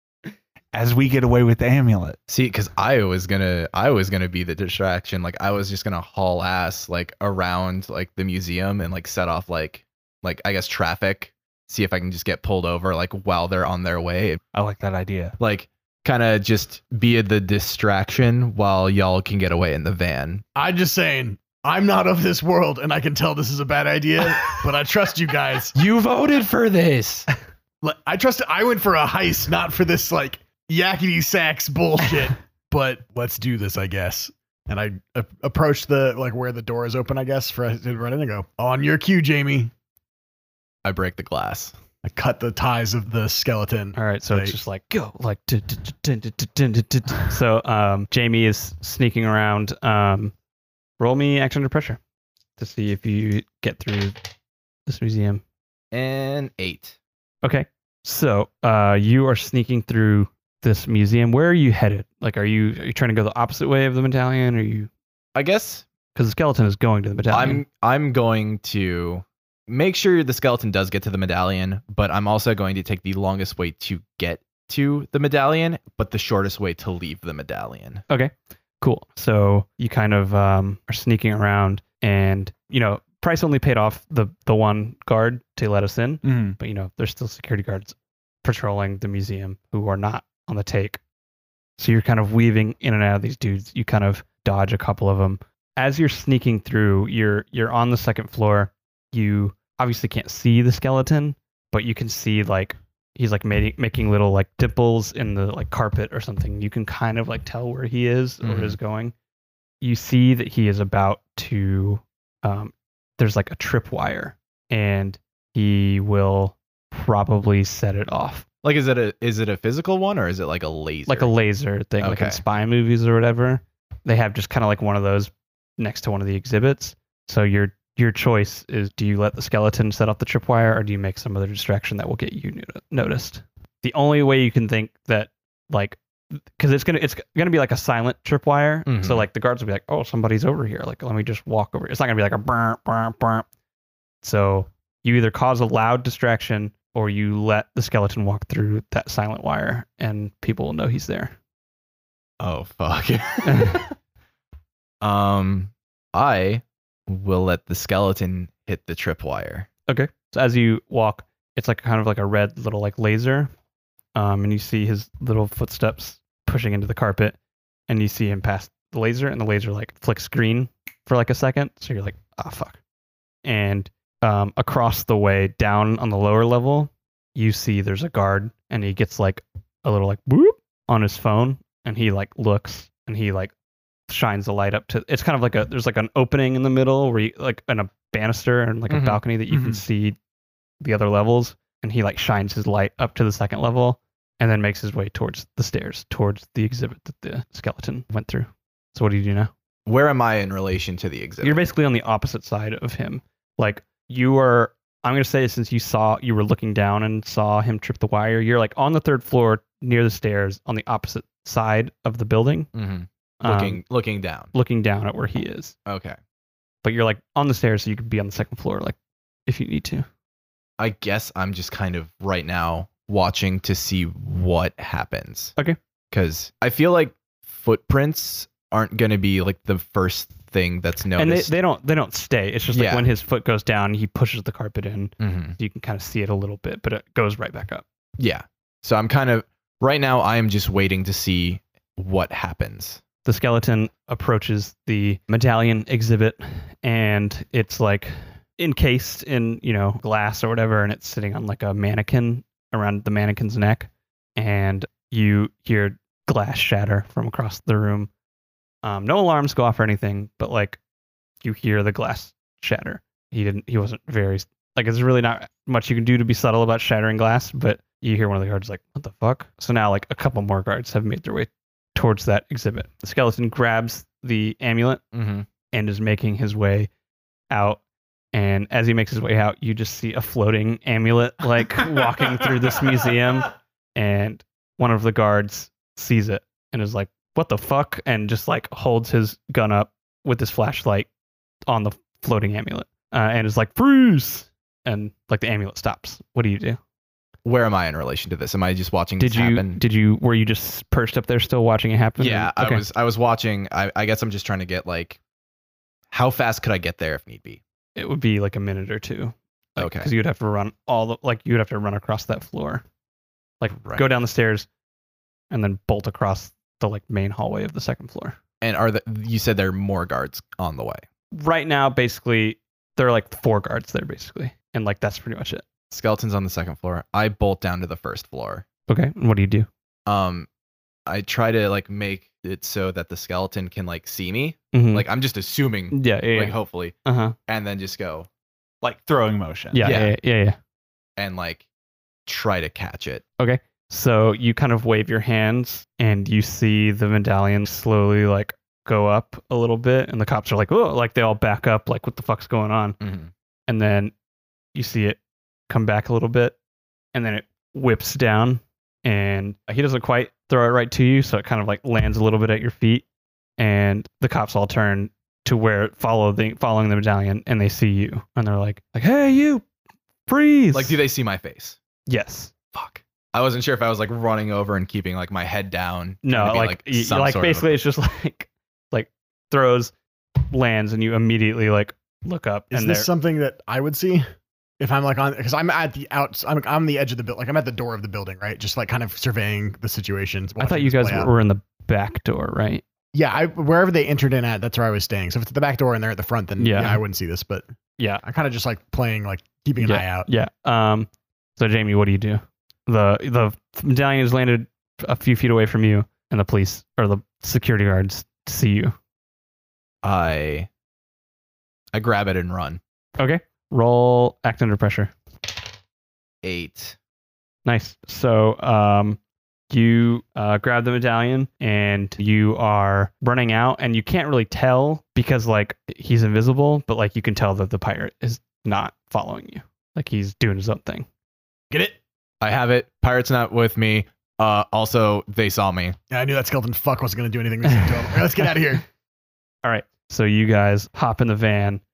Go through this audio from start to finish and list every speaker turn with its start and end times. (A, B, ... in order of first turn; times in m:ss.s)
0:00.7-0:02.2 A
0:02.3-0:14.4 B
0:14.5-0:15.4 A
0:15.4-0:20.4 B
0:20.5-0:25.7 C
0:25.7-0:27.3 B
0:27.8-0:39.7 C
0:40.8-0:41.7 B
0:42.0-0:44.6 C
0:43.9-0:50.3 D
0:51.0-0:52.0 D
0:52.6-0:54.2 D
0:54.8-0:55.4 D
0:55.9-0:57.0 B
0:57.4-1:04.9 D
1:05.3-1:05.8 B
1:06.1-1:07.6 D
1:07.3-1:18.0 B
1:18.1-1:31.0 D
1:26.2-1:26.6 A
1:31.8-1:49.1 D
1:48.4-1:48.8 B
1:49.8-1:58.4 D
1:58.6-2:01.3 B
2:01.1-2:23.4 D
2:02.0-2:02.4 B
2:18.9-2:19.2 B
2:24.2-2:31.3 D
2:32.4-2:33.9 B
2:33.4-2:33.8 D
2:35.0-2:39.7 B
2:39.9-2:43.5 D
2:44.1-2:47.4 D
2:47.9-2:52.8 D
2:53.4-3:03.5 D
3:04.1-3:10.2 D
3:08.9-3:09.2 B
3:09.5-3:09.8 A
3:10.8-3:19.5 D
3:19.8-3:21.6 B
3:21.4-3:32.7 D
3:32.7-3:34.5 B
3:33.4-3:33.8 D
3:34.5-3:35.7 D
3:35.8-3:36.2 B
3:36.8-3:40.0 D
3:40.8-3:45.5 B
3:46.1-3:51.5 B
3:51.2-3:57.8 D
3:52.7-3:53.1 B
3:55.2-3:55.6 B
3:58.2-4:03.0 B
4:03.2-4:18.1 D
4:18.8-4:20.8 D
4:21.4-4:35.0 D
4:35.1-4:35.4 B
4:35.7-4:36.9 D
4:37.5-4:37.8 D
4:38.3-4:51.1 D
4:51.7-4:56.8 D
4:57.4-4:59.8 B
4:59.2-5:02.8 D
5:02.2-5:05.2 B
5:06.1-5:07.6 B
5:08.0-5:12.8 D
5:09.8-5:10.1 B
5:13.6-5:14.7 D
5:13.8-5:14.0 B
5:15.5-5:18.4 D
5:18.6-5:21.0 B
5:21.3-5:25.6 D
5:25.9-5:28.6 B
5:28.9-5:29.7 D
5:30.1-5:30.5 B
5:31.1-5:37.0 B
5:34.7-5:35.0 D
5:35.9-5:37.3 D
5:37.5-5:38.3 B
5:38.8-5:39.9 A
5:39.7-5:40.6 D
5:39.8-5:40.1 B
5:41.2-5:41.6 B
5:42.3-5:43.2 B
5:43.4-5:53.0 D
5:53.0-5:53.3 B
5:53.7-5:54.1 D
5:54.7-5:56.6 D
5:57.1-6:03.0 D
6:03.6-6:09.6 D
6:10.2-6:11.0 D
6:10.7-6:11.8 B
6:12.1-6:12.5 D
6:12.7-6:17.7 B
6:16.2-6:23.1 D
6:22.7-6:24.2 C
6:24.8-6:31.3 C
6:30.6-6:32.8 D
6:33.1-6:37.6 C
6:36.6-6:37.0 D
6:38.0-6:38.2 D
6:38.2-6:40.3 C
6:39.8-6:49.0 D
6:50.0-6:50.7 B
6:51.9-6:52.8 B
6:53.2-6:55.1 D
6:56.4-6:57.0 B
6:57.6-6:59.2 D
6:59.7-7:11.1 D
7:11.7-7:12.0 C
7:12.4-7:16.0 B
7:16.1-7:18.8 C
7:19.6-7:21.8 D